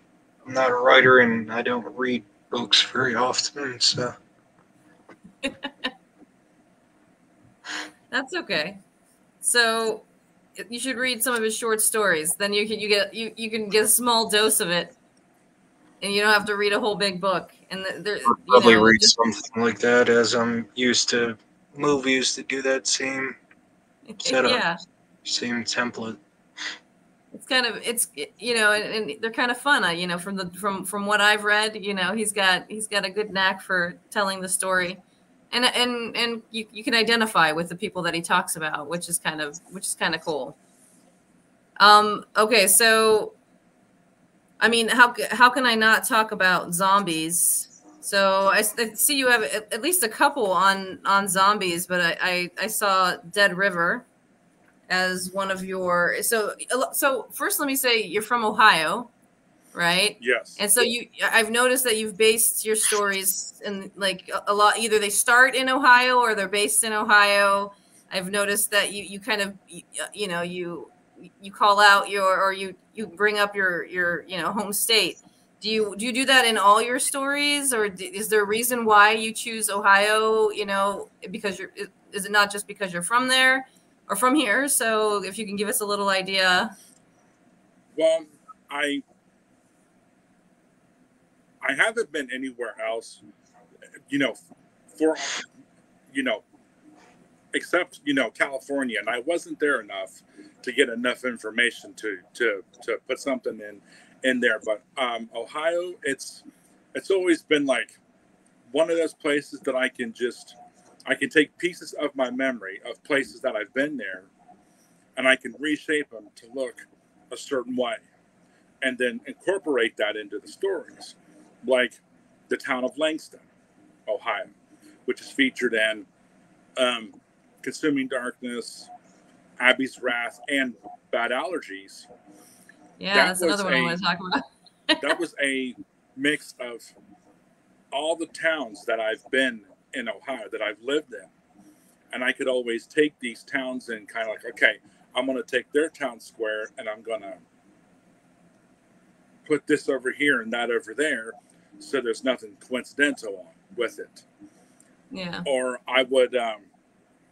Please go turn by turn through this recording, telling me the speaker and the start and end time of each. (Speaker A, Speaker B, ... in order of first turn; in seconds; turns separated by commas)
Speaker A: 0.5-4.1, Speaker B: 5.4-5.7, Speaker B: 8.1-8.8, Speaker B: 9.4-14.9, Speaker B: 16.0-19.1, Speaker A: 18.3-23.4, Speaker B: 24.1-24.8, Speaker A: 24.2-24.6, Speaker A: 25.2-26.2, Speaker B: 27.3-40.6, Speaker B: 41.8-43.4, Speaker B: 44.6-54.1, Speaker B: 54.9-59.1, Speaker B: 59.7-86.7, Speaker C: 60.2-60.6, Speaker C: 88.0-89.0, Speaker C: 91.6-93.2, Speaker C: 94.1-94.4, Speaker C: 95.0-95.5, Speaker C: 96.1-96.4, Speaker C: 97.5-108.0, Speaker C: 108.7-114.3, Speaker C: 115.2-118.0, Speaker C: 118.8-123.4, Speaker C: 124.1-124.5, Speaker C: 125.1-126.1, Speaker C: 126.8-128.9, Speaker C: 129.6-132.1, Speaker B: 133.0-135.2, Speaker C: 133.1-134.0, Speaker C: 135.0-136.9, Speaker C: 137.9-141.3, Speaker C: 142.1-147.4, Speaker C: 149.5-154.2, Speaker B: 155.1-155.5, Speaker C: 155.5-156.7